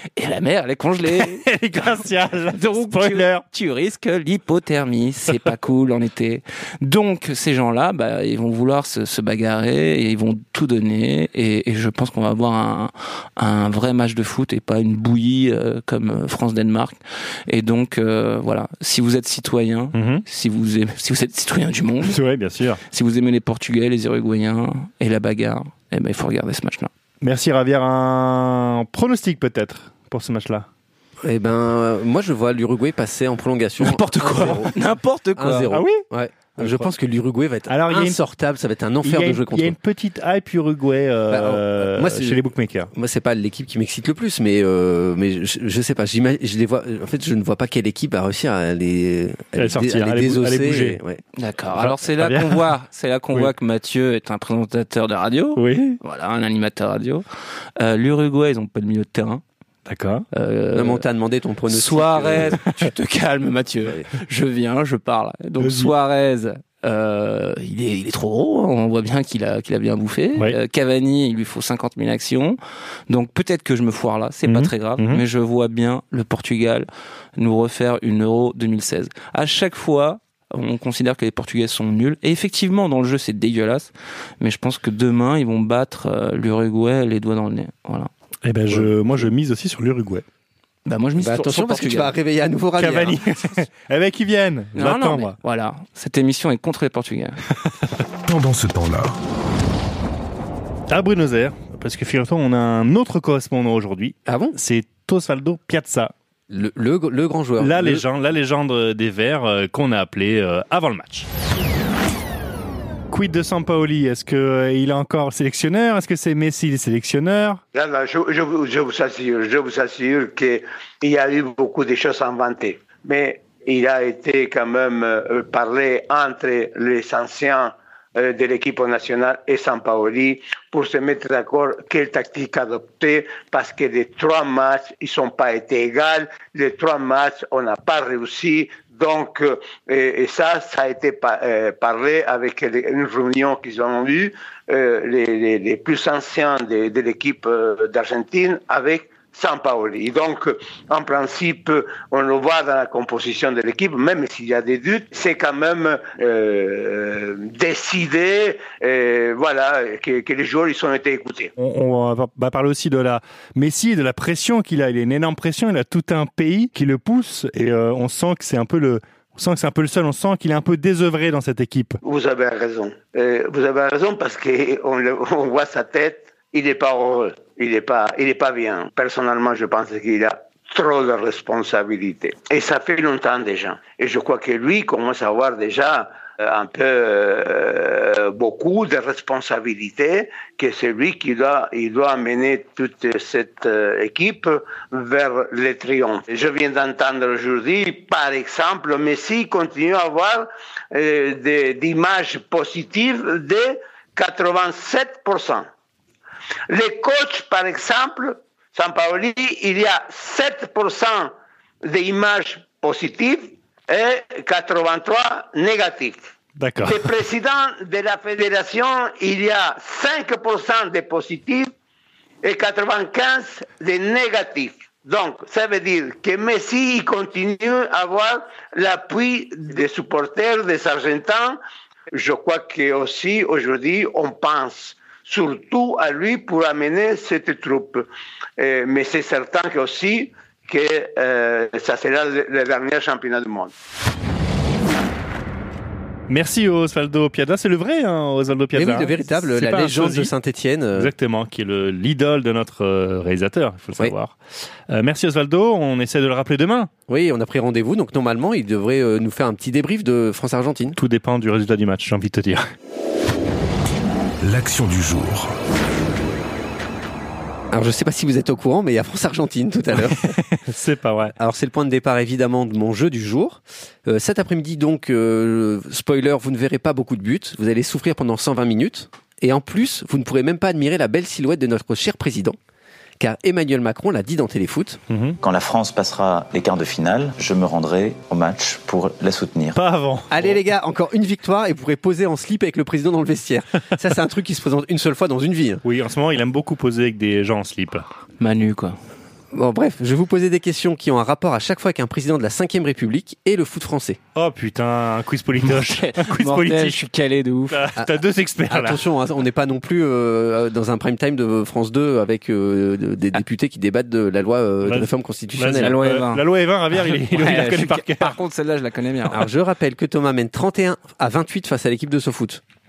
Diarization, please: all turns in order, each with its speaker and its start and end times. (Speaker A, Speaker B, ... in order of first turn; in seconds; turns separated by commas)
Speaker A: 0.1-1.4, Speaker B: 1.1-3.4, Speaker A: 2.5-22.2, Speaker B: 19.9-20.2, Speaker B: 22.0-22.8, Speaker A: 22.9-26.9, Speaker B: 27.2-30.6, Speaker C: 31.2-34.7, Speaker A: 33.8-35.8, Speaker C: 35.4-39.7, Speaker B: 35.7-36.9, Speaker B: 37.7-38.2, Speaker B: 39.0-42.9, Speaker C: 41.3-42.4, Speaker C: 42.9-51.2, Speaker B: 49.6-51.0, Speaker A: 51.4-57.2, Speaker B: 51.8-52.7, Speaker B: 55.5-56.0, Speaker A: 57.8-59.4, Speaker B: 59.9-60.2, Speaker A: 60.3-61.0, Speaker C: 60.7-62.6, Speaker A: 61.7-88.1, Speaker B: 65.6-65.9, Speaker B: 74.5-75.2, Speaker B: 88.4-90.2, Speaker A: 90.8-92.1, Speaker C: 91.2-93.2, Speaker B: 92.8-95.3, Speaker A: 94.7-97.4, Speaker D: 98.3-99.2, Speaker B: 100.9-106.1, Speaker C: 104.2-104.5, Speaker C: 106.5-108.0, Speaker B: 107.6-111.3, Speaker B: 113.1-117.6, Speaker E: 117.7-161.5, Speaker B: 161.6-172.0, Speaker E: 172.0-205.7, Speaker E: 206.7-216.3, Speaker B: 216.6-217.1, Speaker E: 216.8-221.7, Speaker E: 222.4-231.6, Speaker E: 232.1-243.7, Speaker B: 246.3-250.3, Speaker C: 248.7-251.1, Speaker B: 250.9-254.3, Speaker B: 254.9-256.9, Speaker C: 257.1-261.0, Speaker B: 260.9-262.6, Speaker D: 264.4-265.5, Speaker C: 267.7-270.4, Speaker B: 270.3-271.3, Speaker C: 271.4-282.6, Speaker C: 283.2-285.0, Speaker B: 285.1-285.4, Speaker F: 285.4-289.8, Speaker B: 289.7-290.6, Speaker C: 290.3-295.8, Speaker B: 295.8-298.0, Speaker A: 298.4-299.0, Speaker C: 299.5-304.2, Speaker B: 304.3-307.0, Speaker A: 305.6-307.8, Speaker B: 307.7-309.0, Speaker C: 308.7-316.0, Speaker B: 314.8-318.4, Speaker A: 315.8-319.4, Speaker C: 319.3-322.6